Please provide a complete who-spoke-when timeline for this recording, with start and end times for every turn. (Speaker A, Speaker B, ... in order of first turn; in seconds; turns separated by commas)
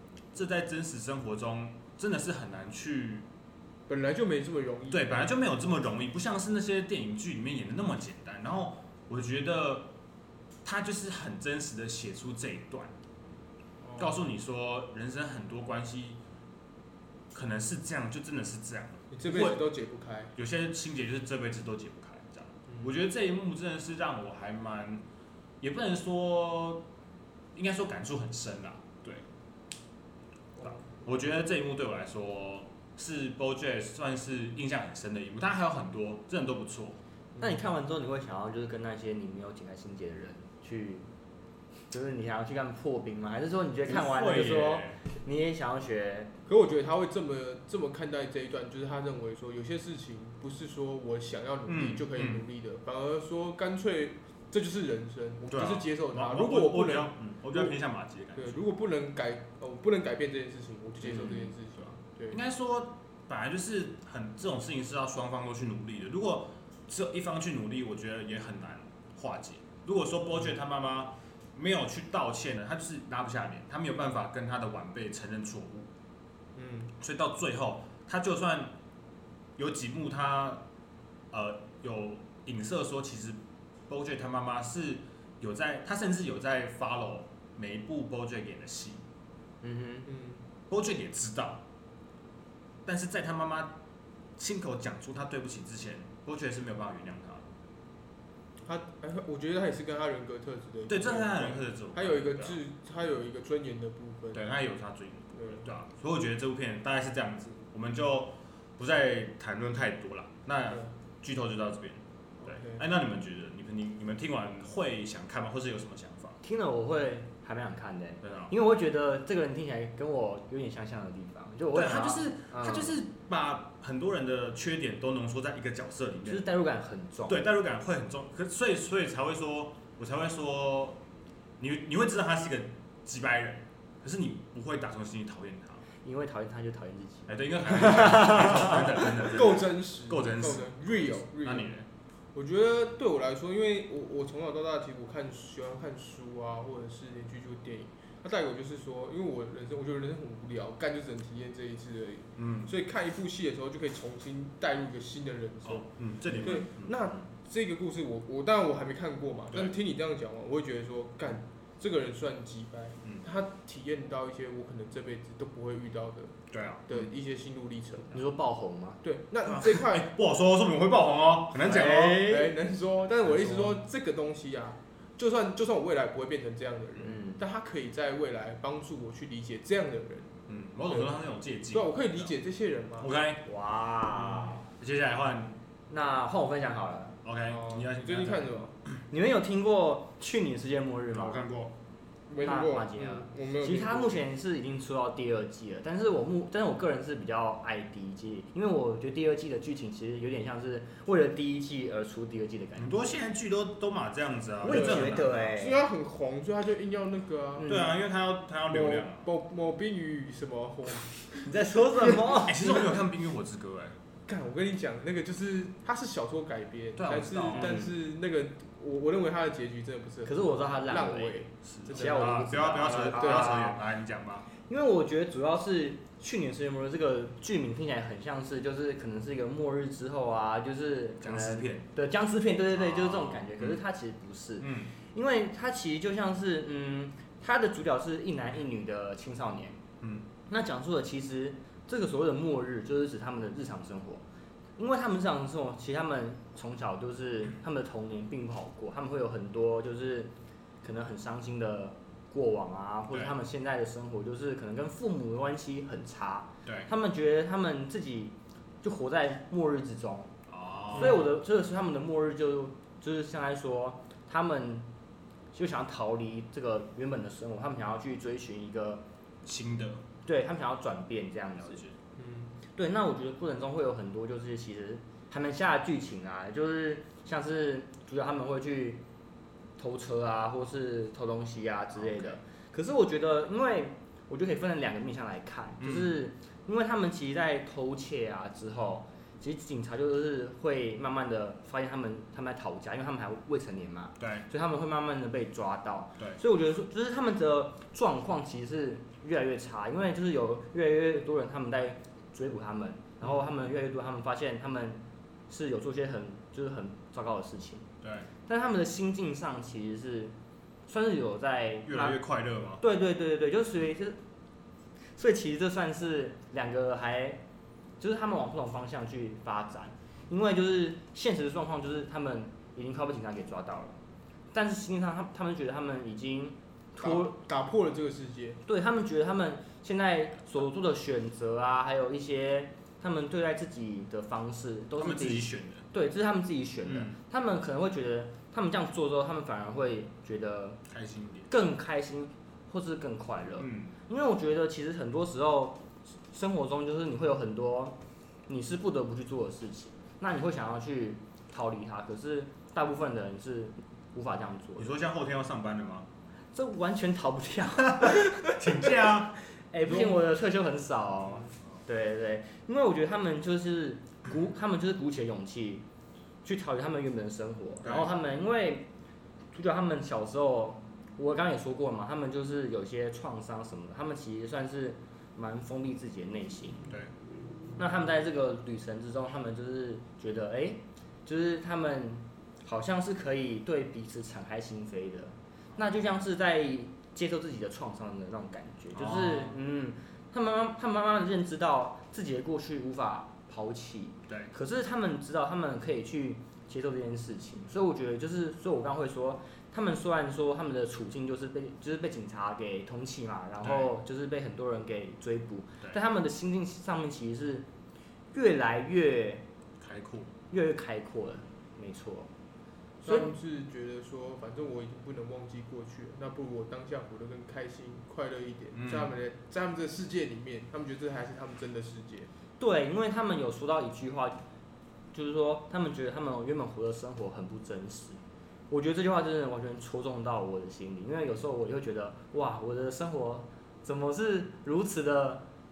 Speaker A: 0.3-3.3, Speaker B: 3.9-5.3, Speaker A: 4.9-9.9, Speaker A: 10.6-12.9, Speaker B: 13.8-14.2, Speaker A: 14.0-16.2, Speaker A: 17.3-19.6, Speaker B: 19.1-20.3, Speaker A: 20.3-25.0, Speaker A: 25.6-26.9, Speaker A: 27.5-29.2, Speaker B: 30.6-31.0, Speaker A: 30.6-37.0, Speaker C: 37.4-41.0, Speaker C: 41.9-46.3, Speaker A: 43.9-45.0, Speaker B: 46.5-57.8, Speaker A: 51.7-52.5, Speaker A: 55.5-58.6, Speaker B: 58.3-62.4, Speaker A: 62.3-75.9, Speaker B: 76.5-76.9, Speaker A: 77.0-78.7, Speaker A: 79.6-80.6, Speaker A: 81.3-89.0, Speaker C: 89.6-90.1, Speaker B: 90.0-90.4, Speaker A: 90.7-91.6, Speaker A: 92.8-93.8, Speaker A: 94.4-97.5, Speaker B: 98.6-104.4, Speaker A: 100.9-102.6, Speaker A: 104.3-116.4, Speaker B: 105.4-105.6, Speaker B: 112.4-112.8, Speaker C: 116.4-123.0, Speaker A: 118.2-118.5, Speaker A: 121.7-126.5, Speaker C: 126.2-127.4, Speaker A: 127.3-131.0, Speaker A: 131.6-135.8, Speaker C: 136.0-138.8, Speaker A: 137.3-141.9, Speaker B: 138.5-141.7, Speaker B: 142.3-168.2, Speaker A: 152.4-152.7, Speaker A: 155.6-157.1, Speaker A: 166.5-167.0, Speaker C: 168.1-169.0, Speaker B: 169.0-170.1, Speaker A: 169.4-172.3, Speaker C: 171.6-172.5, Speaker B: 171.6-180.3, Speaker C: 173.3-173.7, Speaker C: 177.0-177.4, Speaker A: 180.5-182.3, Speaker B: 180.9-181.2, Speaker B: 181.7-183.1, Speaker A: 183.0-183.4, Speaker C: 183.4-184.7, Speaker A: 184.1-185.6, Speaker C: 185.9-187.2, Speaker A: 187.2-188.5, Speaker B: 187.5-188.7, Speaker C: 189.1-191.4, Speaker A: 191.1-191.7, Speaker B: 192.3-194.2, Speaker C: 192.4-202.9, Speaker A: 202.8-205.6, Speaker C: 204.6-205.8, Speaker B: 204.7-207.7, Speaker C: 207.6-207.9, Speaker A: 207.6-209.2, Speaker B: 208.7-211.5, Speaker C: 211.4-212.8, Speaker A: 212.2-213.9, Speaker B: 212.6-213.0, Speaker B: 214.3-223.7, Speaker A: 216.9-217.8, Speaker C: 217.5-217.9, Speaker C: 220.2-223.8, Speaker A: 221.6-224.5, Speaker C: 224.7-239.8, Speaker A: 231.2-231.8, Speaker A: 232.7-233.8, Speaker A: 234.6-234.9, Speaker A: 240.0-240.3, Speaker C: 240.5-244.2, Speaker C: 244.8-250.3, Speaker C: 250.8-260.3, Speaker A: 253.1-253.3, Speaker A: 260.5-261.3, Speaker C: 260.9-264.9, Speaker C: 265.5-269.0, Speaker A: 269.4-270.0, Speaker C: 270.2-271.8, Speaker A: 271.6-271.9, Speaker B: 272.2-272.5, Speaker C: 272.7-279.0, Speaker C: 279.8-307.9, Speaker A: 281.9-282.4, Speaker A: 285.8-286.1, Speaker A: 294.2-294.4, Speaker A: 308.0-308.3, Speaker C: 308.4-310.3, Speaker C: 310.9-312.2, Speaker A: 311.8-312.8, Speaker C: 312.8-314.2, Speaker C: 315.1-317.4, Speaker C: 318.0-324.0, Speaker C: 324.5-327.3, Speaker B: 327.0-328.6, Speaker C: 328.6-340.8, Speaker A: 335.0-335.9, Speaker A: 336.8-337.2, Speaker A: 340.9-341.5, Speaker C: 341.5-354.9, Speaker A: 343.6-343.9, Speaker A: 354.8-356.1, Speaker C: 356.5-358.5, Speaker A: 357.9-360.1, Speaker C: 359.7-365.8, Speaker C: 366.4-368.9, Speaker A: 367.8-368.1, Speaker C: 369.5-376.8, Speaker C: 377.8-407.7, Speaker A: 388.9-389.6, Speaker A: 403.6-403.9, Speaker C: 408.3-409.4, Speaker A: 409.8-410.3, Speaker C: 410.5-412.3, Speaker B: 413.0-422.3, Speaker C: 413.1-413.3, Speaker A: 418.7-419.1, Speaker C: 422.6-424.4, Speaker C: 425.1-435.4